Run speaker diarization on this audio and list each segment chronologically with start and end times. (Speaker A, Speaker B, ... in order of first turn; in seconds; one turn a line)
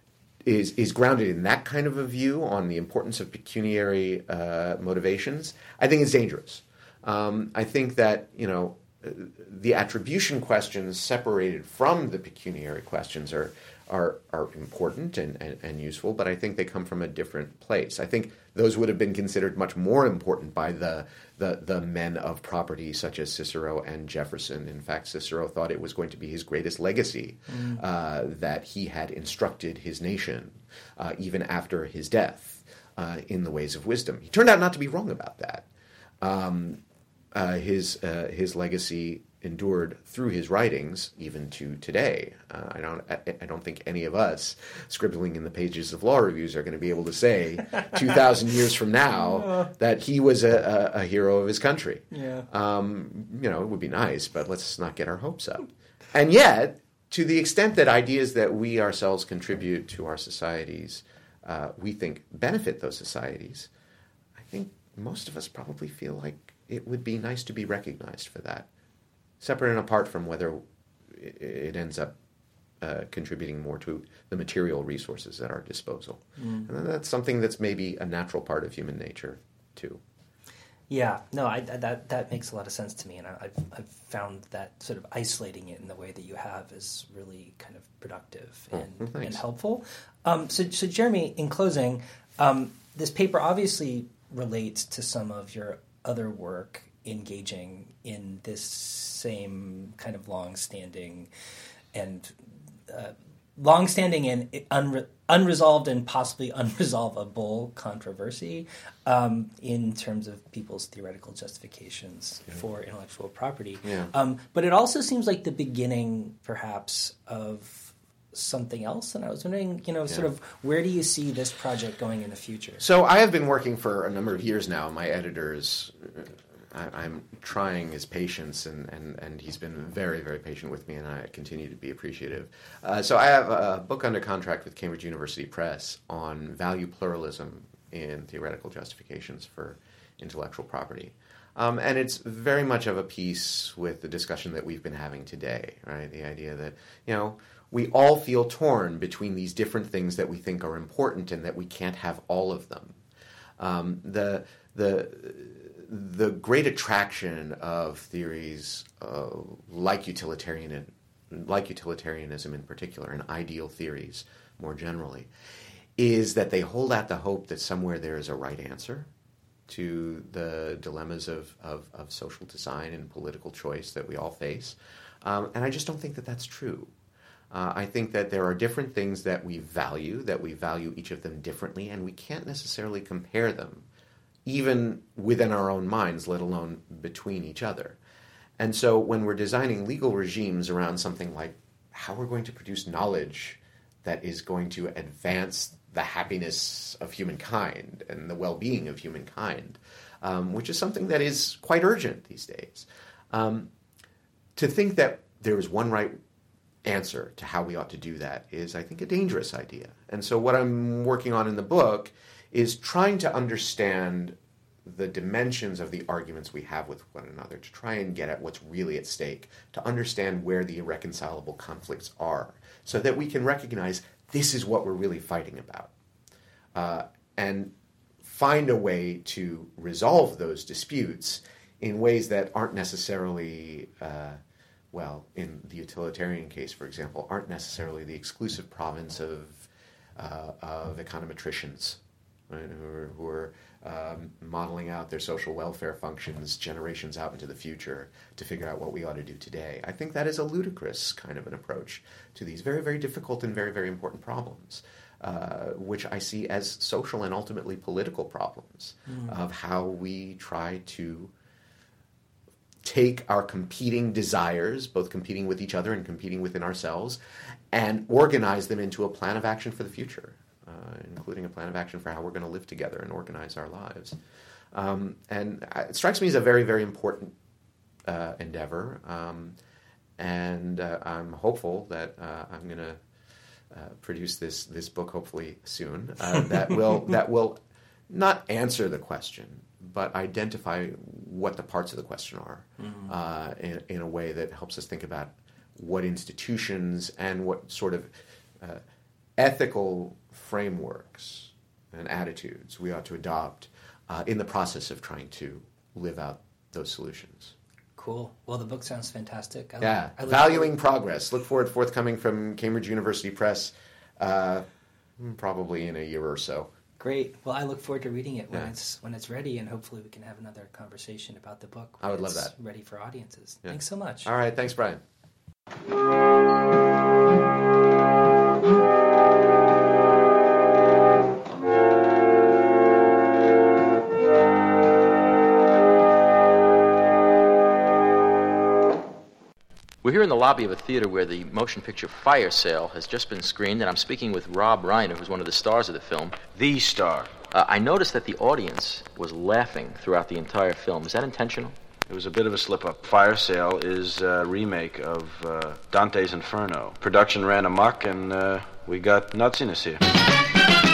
Speaker A: 0.4-35.7
Speaker B: 27.5-27.8
Speaker A: 36.2-36.8
Speaker A: 37.3-63.7
Speaker B: 49.2-49.7
Speaker B: 52.1-52.5
Speaker A: 64.4-68.7
Speaker A: 69.4-72.2
Speaker A: 72.8-80.0
Speaker B: 76.4-76.7
Speaker B: 80.9-101.3
Speaker A: 88.7-89.4
Speaker B: 101.9-102.4
Speaker B: 102.9-122.8
Speaker A: 113.8-114.1
Speaker A: 122.8-153.0
Speaker A: 153.6-165.3
Speaker A: 166.0-169.1
Speaker A: 169.7-176.9
Speaker A: 177.5-183.9
Speaker A: 184.4-188.0
Speaker A: 188.6-203.7
Speaker A: 204.6-206.2
Speaker A: 206.8-225.9
Speaker A: 226.8-234.4
Speaker A: 234.9-261.3
Speaker B: 259.1-259.4
Speaker A: 262.8-267.2
Speaker A: 267.7-274.2
Speaker A: 274.7-277.4
Speaker A: 278.1-279.6
Speaker A: 280.2-283.0
Speaker A: 283.7-298.8
Speaker A: 299.4-307.6
Speaker B: 308.0-310.7
Speaker A: 309.8-314.6
Speaker A: 315.2-316.7
Speaker B: 317.0-324.3
Speaker A: 322.0-322.5
Speaker A: 323.6-325.0
Speaker C: 340.0-346.4
Speaker D: 346.5-347.4
Speaker C: 347.5-351.8
Speaker D: 352.1-360.0